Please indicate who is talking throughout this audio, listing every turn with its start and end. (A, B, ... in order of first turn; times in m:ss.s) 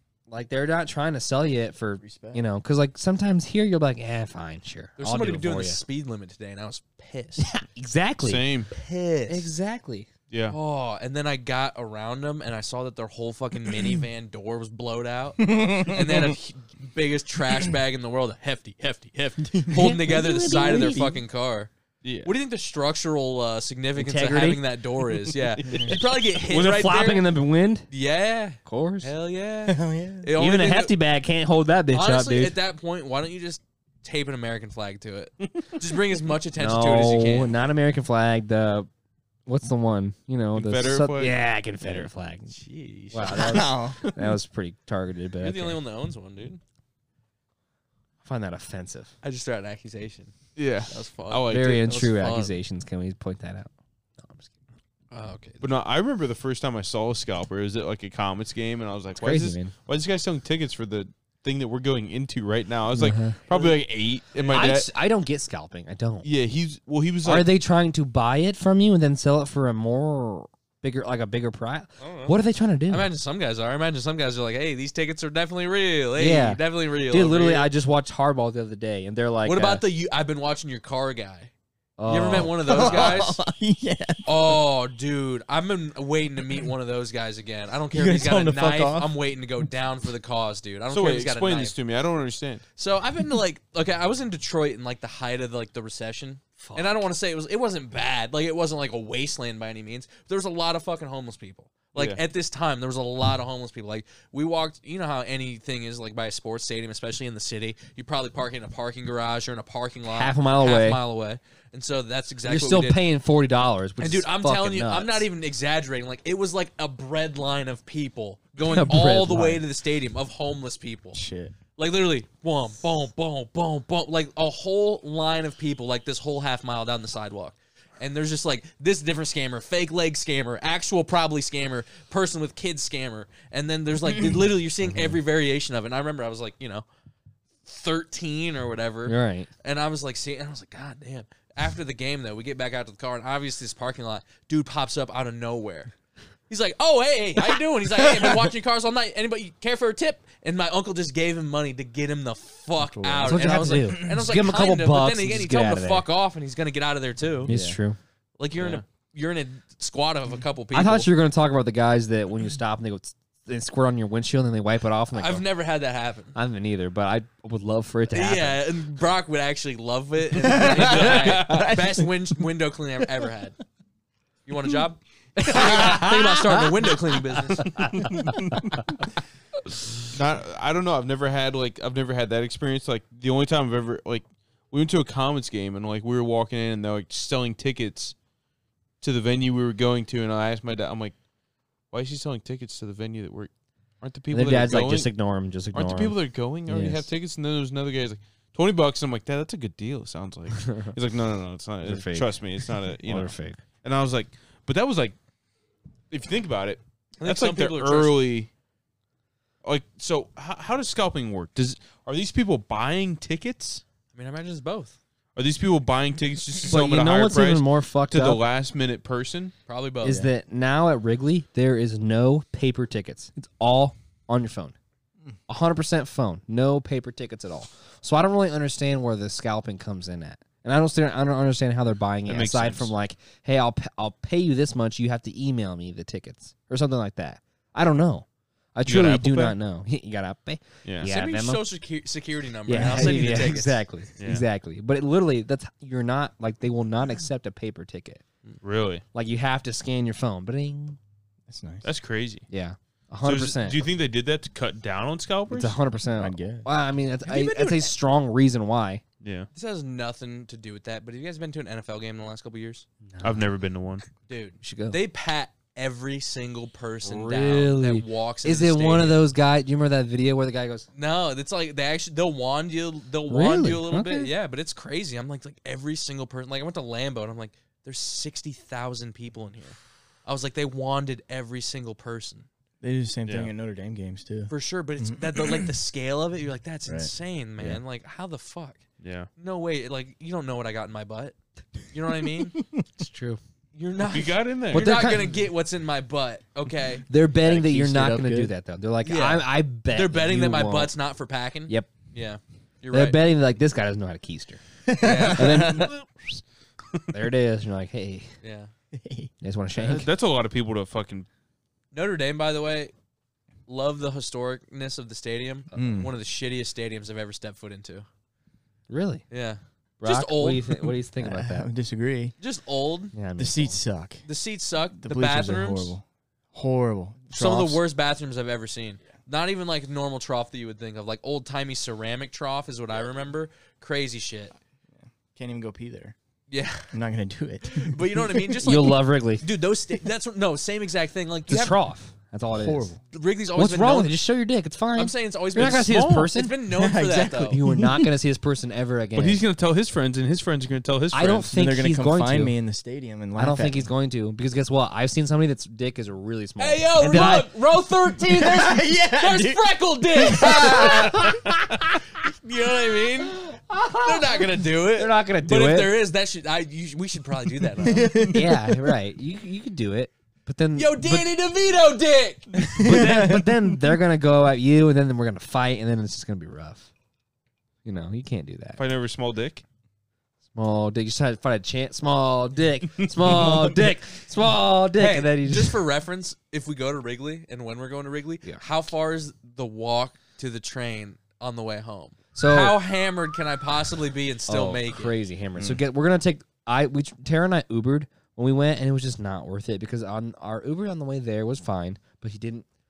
0:00.3-0:05.8 A
0:02.0-0:02.4 B
0:05.0-0:07.5 C
0:07.4-0:08.4 A
0:08.2-0:08.7 D
0:08.7-0:09.5 C
0:09.3-0:10.1 A
0:10.3-0:10.6 D
0:10.5-0:21.7 C
0:15.4-0:16.4 B
0:19.5-0:20.9 B
0:19.7-0:21.2 A
0:22.0-0:22.3 D
0:22.2-0:27.2 C
0:24.0-0:24.6 A
0:25.5-0:26.0 D
0:25.6-0:26.0 B
0:26.4-0:27.9 A
0:27.9-0:30.9 C
0:28.6-0:29.1 A
0:29.6-0:30.3 B
0:30.4-0:32.6 A
0:31.9-0:37.5 C
0:36.6-0:38.9 A
0:39.4-0:42.5 A
0:40.5-0:42.1 D
0:42.5-0:43.7 C
0:43.1-0:45.8 A
0:43.2-0:44.0 B
0:45.4-0:46.6 C
0:48.2-0:49.1 A
0:49.2-0:50.3 C
0:50.6-0:51.8 D
0:50.9-0:52.6 C
0:51.5-0:54.5 A
0:55.1-0:55.6 C
0:55.6-1:04.9 D
0:59.2-0:59.7 A
1:02.9-1:03.4 A
1:03.5-1:03.8 C
1:04.3-1:04.8 C
1:04.5-1:06.3 A
1:06.2-1:07.5 D
1:07.2-1:13.1 A
1:12.0-1:12.4 C
1:12.9-1:17.7 C
1:16.2-1:19.8 A
1:19.4-1:21.5 C
1:22.0-1:23.2 A
1:22.1-1:23.4 C
1:22.6-1:24.5 B
1:24.2-1:31.7 C
1:27.9-1:29.2 B
1:30.9-1:32.6 D
1:32.8-1:53.0 C
1:36.6-1:37.0 A
1:50.1-1:51.0 A
1:52.4-1:55.2 A
1:54.0-2:01.2 C
1:58.6-1:59.6 A
2:01.1-2:01.5 B
2:01.8-2:16.8 C
2:17.6-2:25.9 C
2:19.0-2:19.5 A
2:26.5-2:37.5 C
2:28.0-2:28.5 B
2:32.8-2:34.2 B
2:33.2-2:36.0 A
2:37.4-2:37.8 B
2:37.4-2:38.0 A
2:38.4-2:41.1 C
2:40.7-2:45.4 A
2:45.1-2:46.3 C
2:46.3-2:48.6 A
2:48.1-2:53.6 C
2:50.3-2:52.4 B
2:50.8-2:51.7 D
2:54.4-2:57.9 C
2:55.5-2:56.6 A
2:57.6-2:58.6 A
2:58.0-2:58.7 D
2:58.2-2:58.6 B
3:00.1-3:08.1 D
3:09.0-3:11.2 D
3:11.9-3:15.1 D
3:14.3-3:16.2 A
3:15.7-3:25.2 D
3:16.7-3:17.0 A
3:20.6-3:20.9 A
3:21.8-3:22.4 A
3:23.0-3:23.6 A
3:26.1-3:28.5 D
3:27.2-3:28.2 C
3:29.6-3:33.8 D
3:34.1-3:35.0 C
3:35.3-3:39.5 D
3:36.7-3:38.4 A
3:39.7-3:40.3 C
3:40.0-3:44.7 A
3:45.5-4:01.6 A
3:52.2-3:52.9 D
3:58.8-3:59.6 D
4:00.8-4:01.1 D
4:01.0-4:03.8 C
4:02.7-4:08.2 A
4:02.7-4:03.3 B
4:04.2-4:04.4 D
4:08.6-4:09.0 D
4:09.1-4:11.0 A
4:11.5-4:11.9 B
4:11.8-4:12.4 D
4:12.5-4:13.8 A
4:13.2-4:15.8 D
4:15.5-4:19.0 A
4:16.2-4:16.7 B
4:17.2-4:17.9 C
4:19.2-4:19.5 D
4:19.5-4:22.8 C
4:23.1-4:23.4 A
4:23.2-4:24.0 D
4:24.3-4:29.2 C
4:24.6-4:25.0 A
4:27.0-4:30.8 A
4:30.9-4:42.5 C
4:33.3-4:34.3 A
4:42.8-4:45.7 B
4:43.2-4:43.5 D
4:44.5-4:48.8 C
4:46.8-4:47.8 B
4:49.0-4:49.3 D
4:49.4-4:51.3 C
4:51.9-4:52.6 C
4:53.0-4:53.4 A
4:53.7-4:57.0 C
4:54.0-4:55.0 D
4:54.7-4:55.4 A
4:57.1-5:00.9 A
4:57.4-4:58.5 B
4:59.0-5:03.2 C
5:02.9-5:04.6 A
5:04.8-5:05.9 B
5:05.0-5:05.9 C
5:05.2-5:06.4 A
5:07.1-5:08.3 A
5:08.4-5:08.7 C
5:08.9-5:09.3 B
5:09.4-5:10.1 A
5:09.8-5:11.3 D
5:11.9-5:12.9 C
5:13.7-5:18.0 C
5:15.7-5:16.1 B
5:18.9-5:19.2 A
5:19.3-5:20.9 C
5:20.0-5:21.7 A
5:21.2-5:22.3 B
5:22.4-5:23.1 C
5:23.1-5:23.8 A
5:23.4-5:24.2 B
5:24.2-5:25.9 C
5:25.0-5:27.8 B
5:27.3-5:34.5 C
5:34.9-5:36.1 B
5:36.5-5:36.9 C
5:36.9-5:38.6 B
5:37.7-5:41.8 C
5:38.6-5:39.4 A
5:41.5-5:42.9 A
5:42.5-5:43.0 B
5:43.1-5:44.2 C
5:43.5-5:46.6 A
5:44.9-5:47.6 C
5:45.6-5:46.3 D
5:46.7-5:48.1 B
5:47.5-5:49.4 A
5:49.1-5:51.6 D
5:51.1-5:52.6 A
5:51.5-5:53.9 B
5:53.4-5:57.5 A
5:56.6-6:01.5 C
5:58.2-6:01.4 B
6:02.1-6:08.4 C
6:03.5-6:04.4 A
6:05.0-6:05.9 A
6:07.8-6:08.8 B
6:08.3-6:11.2 A
6:10.7-6:12.8 C
6:12.7-6:13.8 B
6:12.8-6:16.9 A
6:17.8-6:18.8 A
6:18.8-6:19.6 D
6:20.5-6:25.8 A
6:23.3-6:23.6 D
6:25.0-6:35.1 C
6:32.3-6:32.8 A
6:34.5-6:42.6 A